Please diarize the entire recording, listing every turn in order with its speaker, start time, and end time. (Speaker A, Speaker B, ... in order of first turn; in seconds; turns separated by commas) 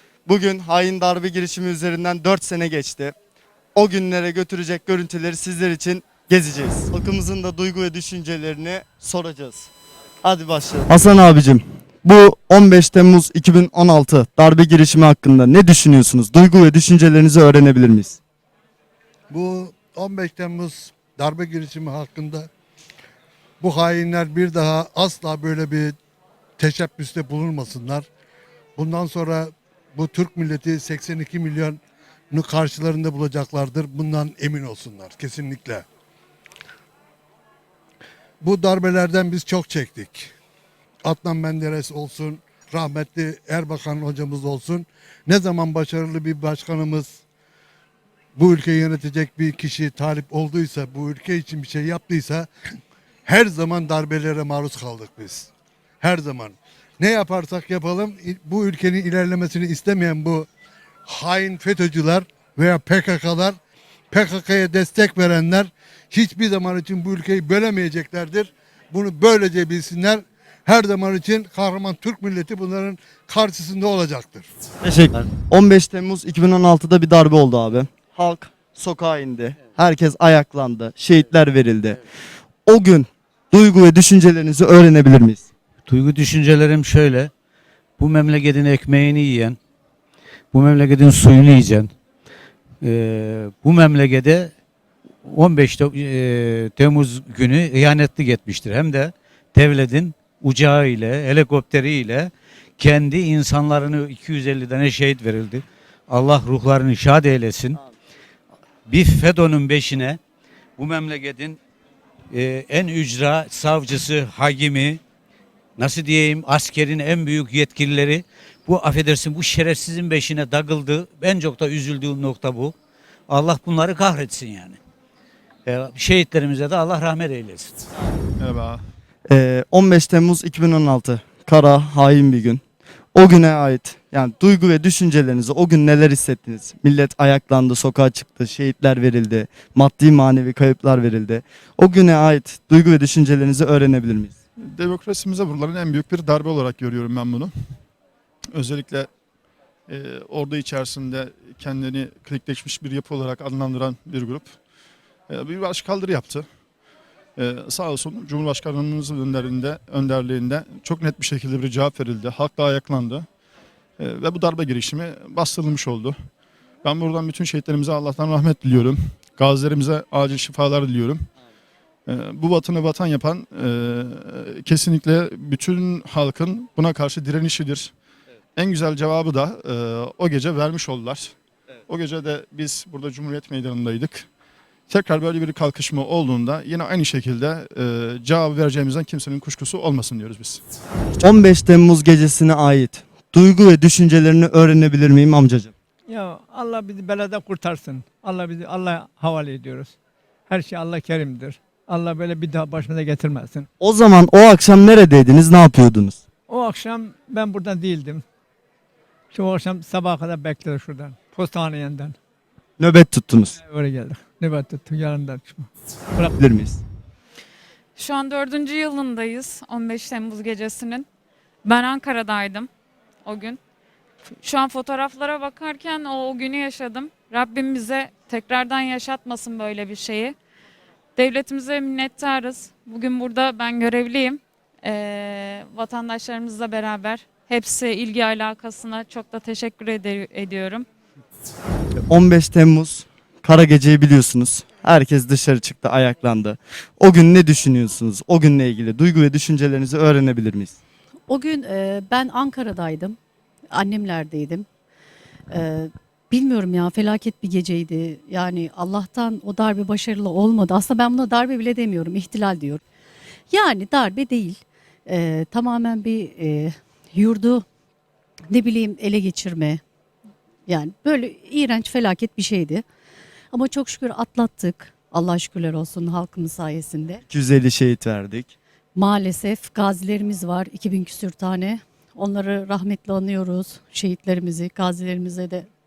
Speaker A: 0.3-3.1, Speaker A: 3.8-9.7, Speaker A: 10.2-18.2, Speaker B: 19.3-22.5, Speaker B: 23.6-25.9, Speaker B: 26.6-28.1, Speaker B: 28.8-31.8, Speaker B: 32.3-35.8, Speaker B: 38.4-40.3, Speaker B: 41.0-47.2, Speaker B: 48.4-52.5, Speaker B: 53.3-55.5, Speaker B: 56.0-60.5, Speaker B: 61.1-63.6, Speaker B: 64.1-74.5, Speaker A: 74.8-82.0, Speaker A: 82.7-85.5, Speaker C: 85.9-87.3, Speaker C: 88.0-89.6, Speaker C: 90.5-91.9, Speaker C: 92.8-94.5, Speaker C: 95.3-107.8, Speaker C: 108.9-110.2, Speaker C: 110.8-111.6, Speaker C: 112.3-115.0, Speaker C: 115.8-122.7, Speaker C: 123.3-124.8, Speaker C: 125.7-127.7, Speaker D: 128.4-128.8, Speaker A: 129.3-132.6, Speaker A: 133.2-144.3, Speaker D: 144.8-147.5, Speaker D: 148.5-149.1, Speaker D: 149.9-154.6, Speaker D: 155.3-156.5, Speaker D: 157.4-163.3, Speaker D: 164.0-166.2, Speaker D: 166.8-171.3, Speaker D: 172.1-177.9, Speaker D: 178.6-181.4, Speaker D: 181.9-184.3, Speaker D: 184.9-190.6, Speaker A: 191.2-195.7, Speaker E: 196.1-199.9, Speaker E: 200.5-203.7, Speaker A: 203.8-206.2, Speaker E: 206.5-208.2, Speaker E: 209.3-212.2, Speaker A: 212.8-213.6, Speaker E: 213.6-216.3, Speaker A: 216.4-216.8, Speaker F: 218.0-221.1, Speaker F: 221.7-222.7, Speaker F: 223.2-223.6, Speaker F: 224.4-230.3, Speaker F: 231.2-240.9, Speaker A: 242.1-250.8, Speaker G: 251.3-253.2, Speaker G: 253.7-254.7, Speaker G: 255.5-262.8, Speaker G: 263.5-267.6, Speaker G: 268.5-269.8, Speaker G: 270.7-272.8, Speaker G: 273.5-277.2, Speaker A: 277.3-278.5, Speaker G: 279.0-285.7